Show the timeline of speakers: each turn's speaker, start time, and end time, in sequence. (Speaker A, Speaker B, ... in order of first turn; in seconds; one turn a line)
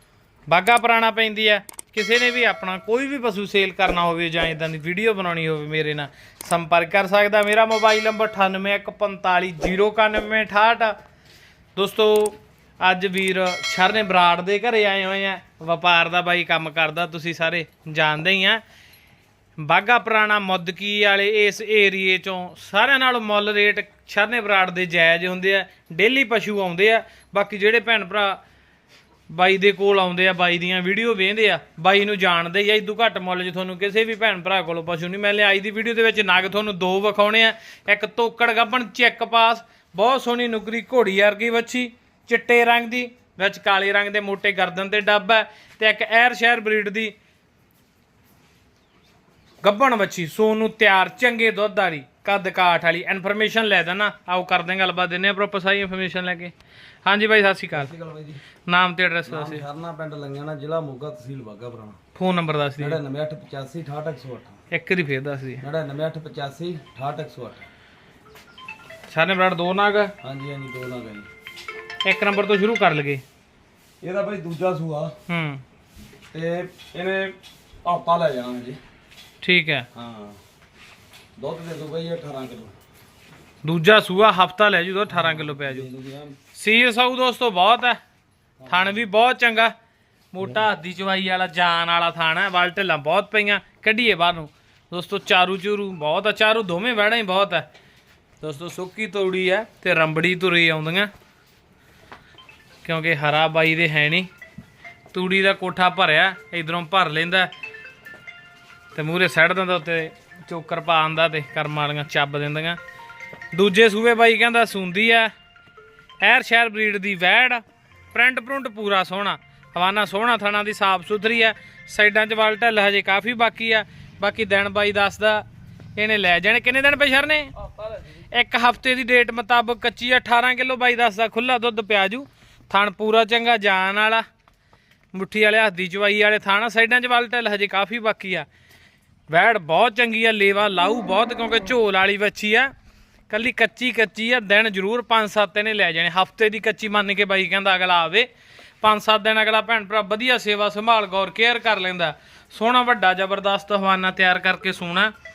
Speaker A: 0.5-11.0
Speaker A: 11.8-18.6
Speaker A: 19.6-28.4
Speaker A: 29.3-47.1
Speaker A: 49.6-56.5
Speaker A: 57.0-57.9
Speaker B: 57.7-58.4
Speaker A: 58.7-59.6
Speaker B: 59.2-62.0
Speaker A: 62.1-63.0
Speaker B: 62.8-64.6
Speaker A: 64.7-65.6
Speaker B: 65.6-67.6
Speaker A: 69.1-70.1
Speaker B: 70.2-71.3
Speaker A: 72.0-73.2
Speaker B: 74.0-75.1
Speaker A: 75.3-75.6
Speaker B: 76.3-78.8
Speaker A: 79.4-79.9
Speaker B: 79.9-80.4
Speaker B: 81.4-82.7
Speaker A: 83.6-85.9
Speaker B: 85.1-86.4
Speaker A: 86.5-88.0
Speaker B: 88.6-89.1
Speaker A: 88.7-89.7
Speaker A: 90.3-97.7
Speaker A: 98.4-101.1
Speaker A: 102.8-104.3
Speaker A: 105.1-107.5
Speaker A: 108.9-112.8
Speaker A: 113.5-115.3
Speaker A: 116.2-125.4
Speaker A: 126.0-127.5
Speaker B: 127.5-128.3
Speaker A: 128.3-134.2
Speaker A: 135.1-138.4
Speaker A: 139.3-142.7
Speaker A: 143.3-148.3
Speaker A: 148.8-155.1